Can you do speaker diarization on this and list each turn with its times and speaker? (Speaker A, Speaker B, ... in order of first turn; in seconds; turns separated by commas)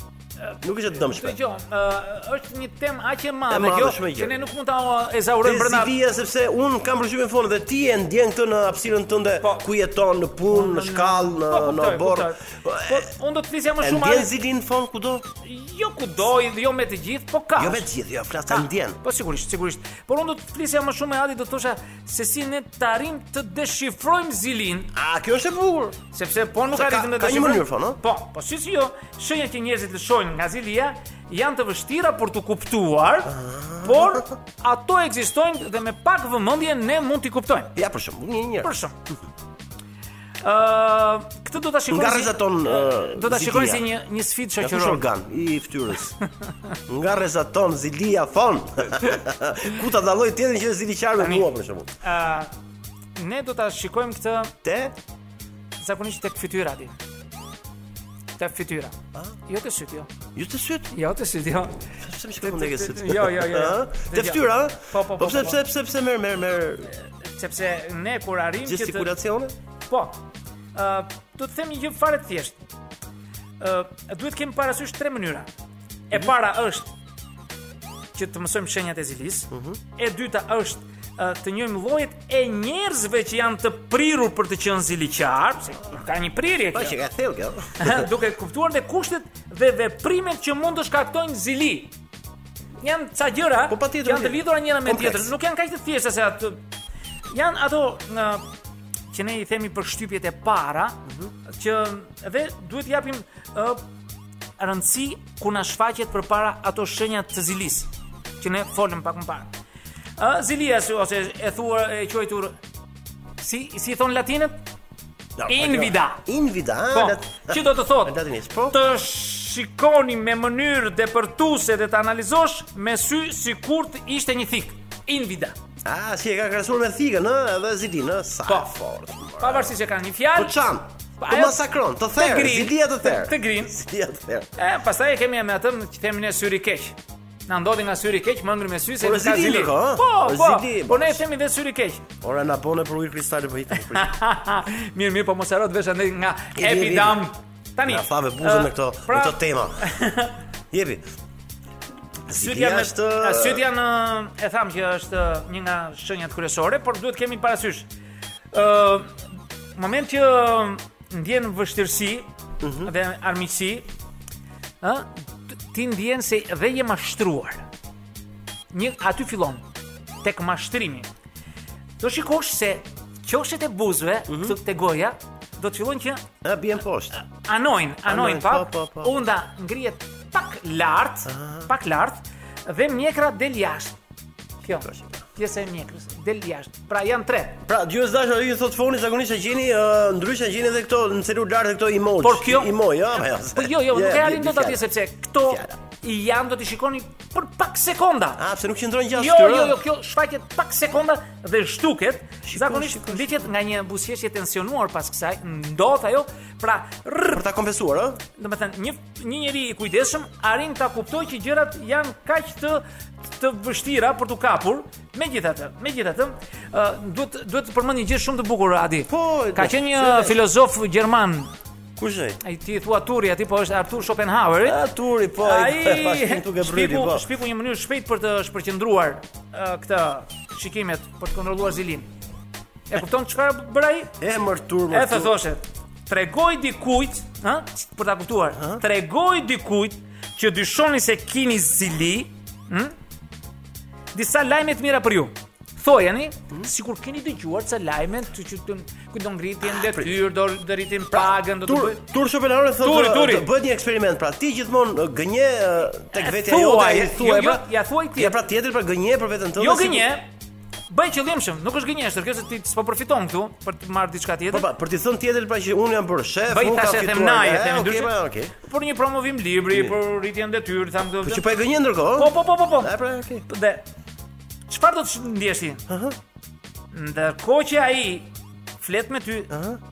Speaker A: 0.4-5.9, Speaker B: 0.6-1.4, Speaker B: 3.5-4.4, Speaker B: 5.4-13.1, Speaker A: 9.4-9.7, Speaker A: 10.5-14.3, Speaker B: 13.8-15.2, Speaker A: 15.4-17.9, Speaker B: 17.6-19.0, Speaker A: 18.5-24.9, Speaker B: 24.9-26.0, Speaker A: 26.1-37.7, Speaker B: 26.7-28.0, Speaker B: 33.3-34.3, Speaker B: 37.8-38.8, Speaker A: 38.6-38.9, Speaker A: 40.4-45.0, Speaker B: 41.9-43.9, Speaker B: 44.6-46.2, Speaker B: 46.9-51.9, Speaker A: 51.2-51.5, Speaker A: 52.0-52.5, Speaker A: 53.1-54.5, Speaker B: 54.6-54.9, Speaker A: 55.8-57.0, Speaker A: 58.4-58.9, Speaker A: 59.5-60.1, Speaker B: 60.4-60.9, Speaker A: 60.9-61.8, Speaker B: 62.0-66.9, Speaker A: 62.4-65.6, Speaker A: 67.2-69.1, Speaker B: 68.6-69.5, Speaker A: 69.9-70.2, Speaker A: 70.8-72.6, Speaker A: 73.6-75.5, Speaker A: 76.1-76.9, Speaker A: 78.1-87.0, Speaker B: 79.5-79.8, Speaker B: 86.7-88.0, Speaker A: 87.8-91.9, Speaker A: 92.8-96.6, Speaker B: 93.7-95.3, Speaker A: 97.3-98.4, Speaker A: 99.1-103.8, Speaker A: 104.6-109.6, Speaker A: 110.2-112.5, Speaker A: 113.4-114.6, Speaker B: 115.4-118.8, Speaker A: 115.5-116.2, Speaker A: 116.9-118.2, Speaker A: 118.7-125.5, Speaker B: 125.8-129.7, Speaker A: 129.4-130.6, Speaker B: 130.4-134.5, Speaker A: 131.2-131.6, Speaker A: 132.1-133.8, Speaker A: 134.6-142.1, Speaker B: 139.0-141.2, Speaker B: 142.2-144.1, Speaker A: 143.7-150.3, Speaker B: 146.6-147.2, Speaker B: 147.9-149.8, Speaker B: 150.7-151.0, Speaker B: 152.3-153.6, Speaker A: 152.3-157.9, Speaker A: 158.5-159.1, Speaker A: 159.8-162.3, Speaker B: 162.6-162.9, Speaker A: 162.8-163.9, Speaker A: 164.8-167.7, Speaker A: 168.7-169.6, Speaker A: 170.2-171.1, Speaker A: 172.0-176.2, Speaker B: 174.3-174.5, Speaker B: 176.4-177.2, Speaker A: 177.2-184.0, Speaker B: 178.1-179.1, Speaker B: 181.3-181.7, Speaker A: 184.6-187.6, Speaker B: 184.8-185.2, Speaker B: 187.6-194.8, Speaker A: 192.2-192.7, Speaker A: 193.4-198.4, Speaker B: 195.5-195.8, Speaker B: 198.4-199.8, Speaker A: 199.1-207.4, Speaker B: 202.4-203.4, Speaker B: 207.3-208.2, Speaker A: 208.4-221.5, Speaker B: 219.1-220.4, Speaker B: 222.0-222.4, Speaker A: 222.4-224.8, Speaker B: 224.6-227.2, Speaker A: 225.4-232.1, Speaker A: 232.9-234.1, Speaker B: 234.2-235.3, Speaker A: 234.9-242.9, Speaker A: 244.1-252.0, Speaker B: 249.6-250.1, Speaker B: 251.1-257.6, Speaker A: 252.8-253.5, Speaker A: 256.1-258.4, Speaker B: 258.1-260.1, Speaker A: 259.6-260.3, Speaker A: 260.9-264.6, Speaker B: 264.5-268.6, Speaker A: 266.5-271.5, Speaker B: 271.2-273.5, Speaker A: 272.1-272.9, Speaker A: 273.5-273.9, Speaker A: 274.7-275.8, Speaker B: 275.9-276.1, Speaker A: 276.9-278.3, Speaker A: 278.8-279.5, Speaker B: 279.5-279.8